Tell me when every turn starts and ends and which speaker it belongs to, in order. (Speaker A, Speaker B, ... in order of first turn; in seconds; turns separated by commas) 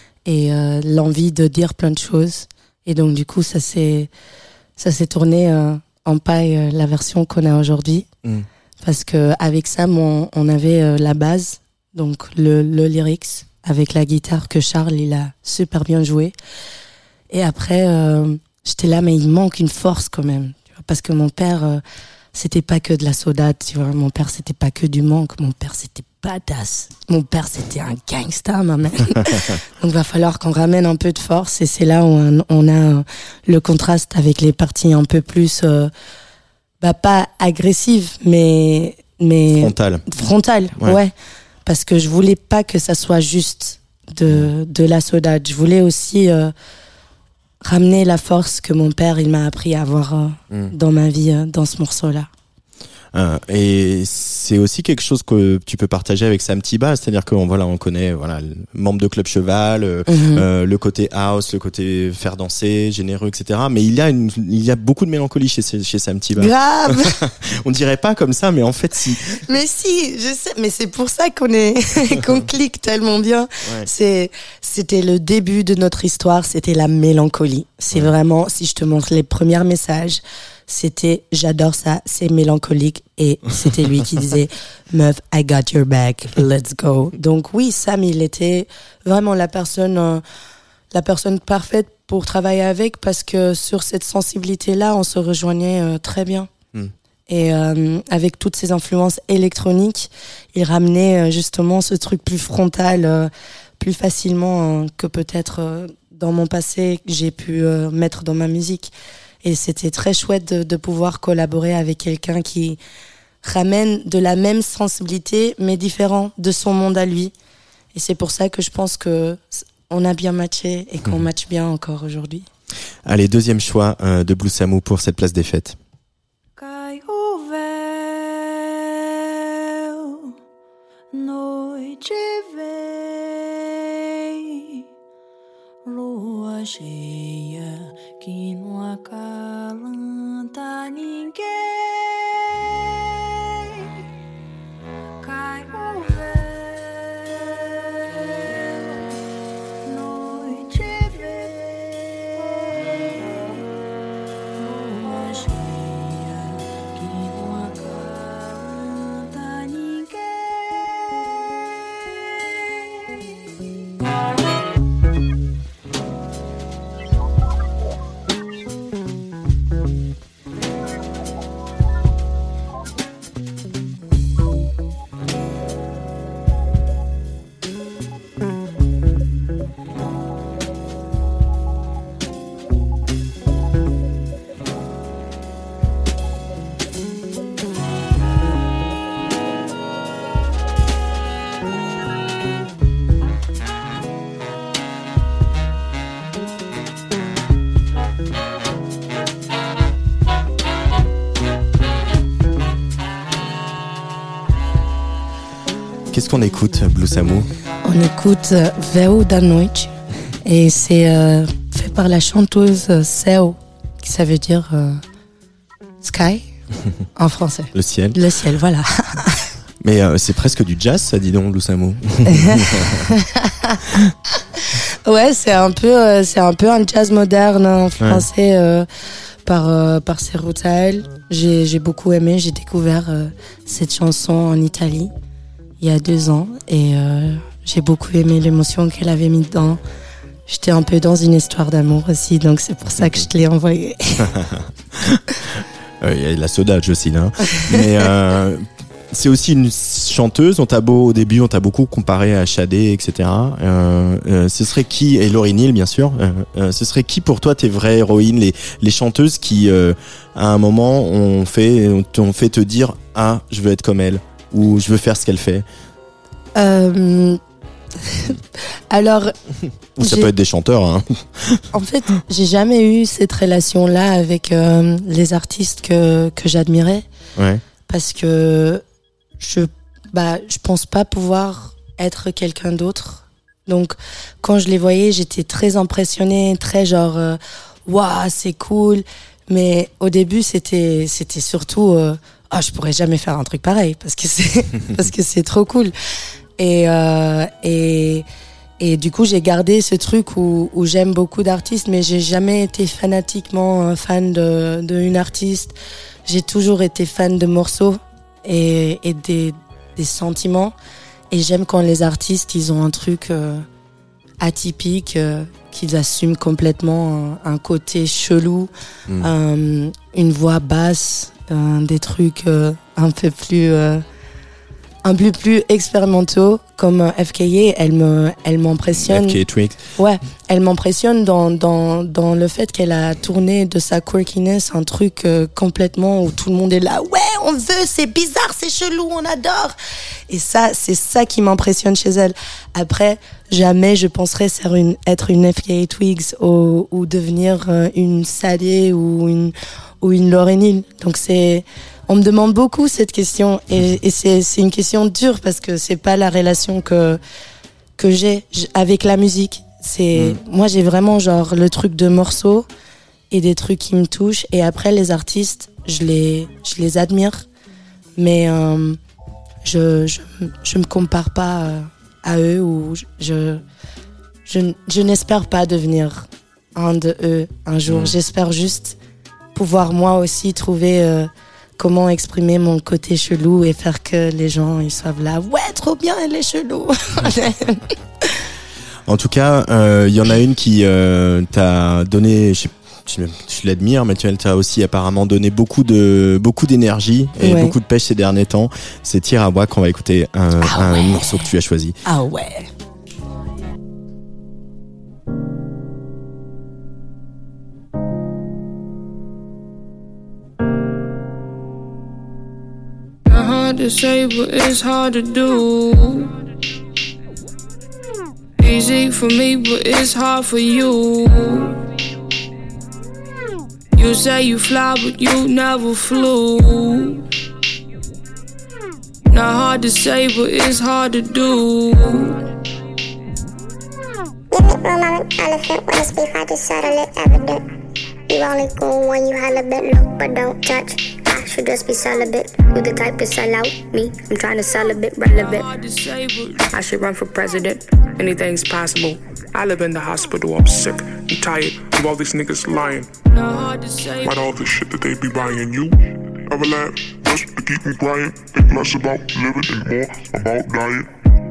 Speaker A: 0.2-4.1, Speaker A: 4.8-8.1, Speaker A: 8.8-16.4, Speaker A: 17.3-21.8, Speaker A: 22.3-35.9, Speaker A: 36.8-41.1, Speaker B: 39.5-40.1, Speaker A: 41.7-46.5, Speaker A: 47.6-52.3, Speaker B: 53.1-69.4, Speaker A: 60.1-60.5, Speaker A: 66.4-67.2, Speaker A: 69.5-90.2, Speaker B: 72.1-72.4, Speaker A: 90.9-96.5, Speaker A: 97.3-108.9, Speaker A: 109.4-112.8, Speaker A: 113.4-117.3, Speaker A: 117.9-122.5, Speaker B: 123.1-125.8, Speaker C: 126.6-130.3, Speaker C: 131.1-134.8, Speaker C: 135.9-142.4, Speaker C: 142.9-143.9, Speaker C: 145.2-149.2, Speaker C: 149.8-153.7, Speaker C: 154.6-161.0, Speaker C: 162.4-163.2, Speaker B: 206.1-207.5, Speaker A: 207.8-209.9, Speaker A: 210.4-215.0, Speaker A: 216.0-216.5, Speaker A: 217.2-219.5, Speaker B: 217.7-218.2, Speaker B: 219.8-223.1, Speaker A: 222.3-223.8, Speaker A: 224.6-228.9, Speaker B: 228.0-228.3, Speaker A: 229.5-235.1, Speaker A: 235.8-239.8, Speaker A: 240.5-244.3, Speaker B: 244.2-265.7, Speaker A: 266.6-267.4, Speaker A: 268.0-269.3, Speaker B: 270.0-271.6, Speaker A: 270.0-270.3, Speaker A: 271.7-277.1, Speaker B: 277.4-277.6, Speaker A: 277.9-278.8, Speaker A: 279.4-295.9, Speaker A: 296.6-298.3, Speaker A: 298.8-305.7, Speaker A: 306.3-310.8, Speaker A: 311.3-313.6, Speaker A: 314.4-324.0, Speaker A: 325.1-329.4, Speaker B: 329.0-329.8, Speaker A: 330.0-339.8, Speaker A: 340.3-357.2, Speaker A: 358.0-362.7, Speaker A: 363.3-367.5, Speaker A: 368.2-369.0, Speaker A: 369.6-373.6, Speaker A: 374.5-379.0, Speaker B: 377.9-378.1, Speaker A: 379.6-388.4, Speaker B: 389.1-402.0, Speaker A: 397.4-397.8, Speaker A: 400.6-401.5, Speaker A: 402.1-402.7, Speaker D: 413.3-416.3, Speaker D: 418.6-421.8, Speaker D: 423.9-427.2, Speaker D: 429.3-432.4, Speaker E: 434.5-437.6, Speaker E: 438.3-445.3, Speaker F: 444.6-445.7, Speaker D: 445.3-446.7, Speaker F: 446.7-453.1, Speaker D: 453.3-454.5, Speaker G: 454.2-461.1